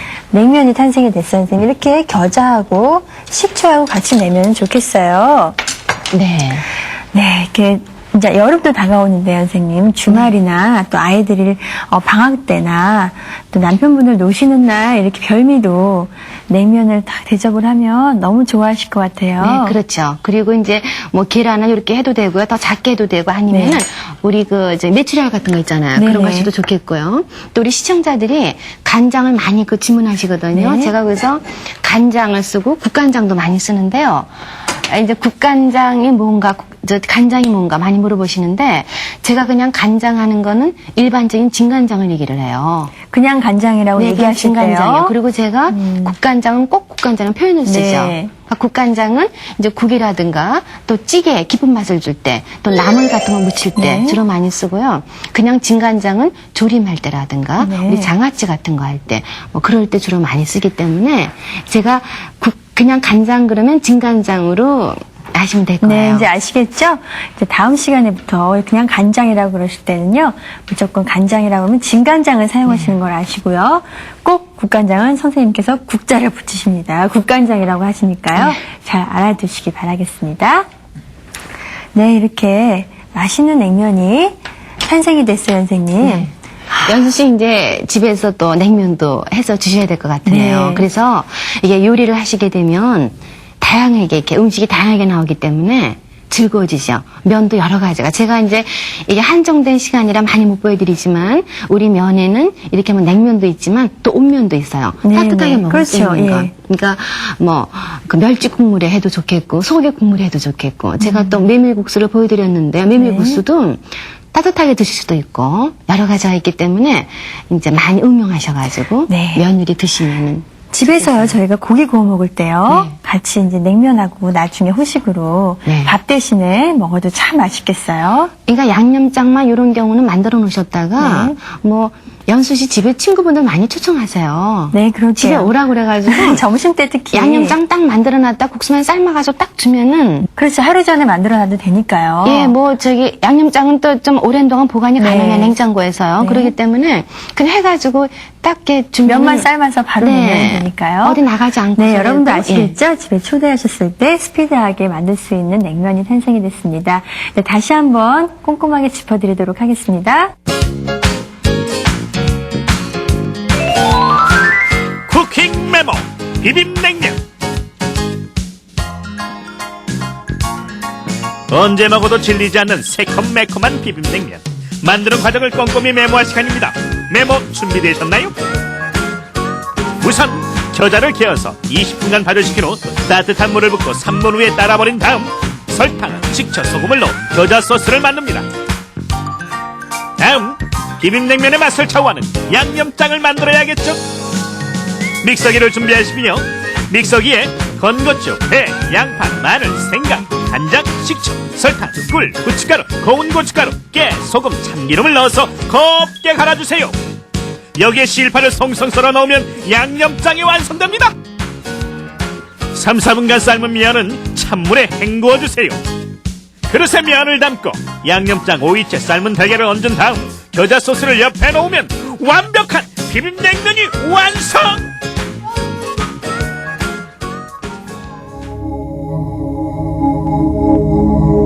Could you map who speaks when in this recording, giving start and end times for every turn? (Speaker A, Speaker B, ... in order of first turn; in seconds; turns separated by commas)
Speaker A: 0.3-5.6, Speaker B: 6.1-6.7, Speaker A: 7.1-19.8, Speaker B: 19.4-42.9, Speaker A: 23.5-23.8, Speaker A: 25.9-26.5, Speaker A: 30.5-30.9, Speaker A: 43.1-45.1, Speaker B: 44.0-66.3, Speaker A: 45.7-46.1, Speaker A: 47.6-48.3, Speaker A: 53.8-54.2, Speaker A: 57.6-58.1, Speaker A: 65.8-80.7, Speaker B: 72.7-72.9, Speaker A: 81.9-87.1, Speaker B: 86.0-86.3, Speaker B: 86.8-121.3, Speaker A: 90.2-90.9, Speaker A: 105.0-106.5, Speaker A: 111.0-111.5, Speaker A: 113.0-113.4, Speaker A: 119.1-119.4, Speaker A: 120.7-128.3, Speaker B: 122.7-123.0, Speaker B: 125.7-126.0, Speaker B: 128.5-136.4, Speaker A: 131.0-131.4, Speaker A: 134.7-135.5, Speaker A: 136.1-137.6, Speaker B: 137.1-140.3, Speaker A: 140.3-142.5, Speaker B: 142.2-149.5, Speaker A: 145.0-145.6, Speaker A: 146.2-146.5, Speaker A: 149.1-151.2, Speaker B: 150.0-152.8, Speaker A: 151.8-160.3, Speaker C: 165.1-167.2, Speaker C: 171.5-178.3, Speaker C: 180.0-188.5, Speaker C: 190.2-194.0, Speaker C: 195.2-206.9, Speaker C: 207.8-211.1, Speaker C: 212.7-215.8, Speaker C: 216.7-224.9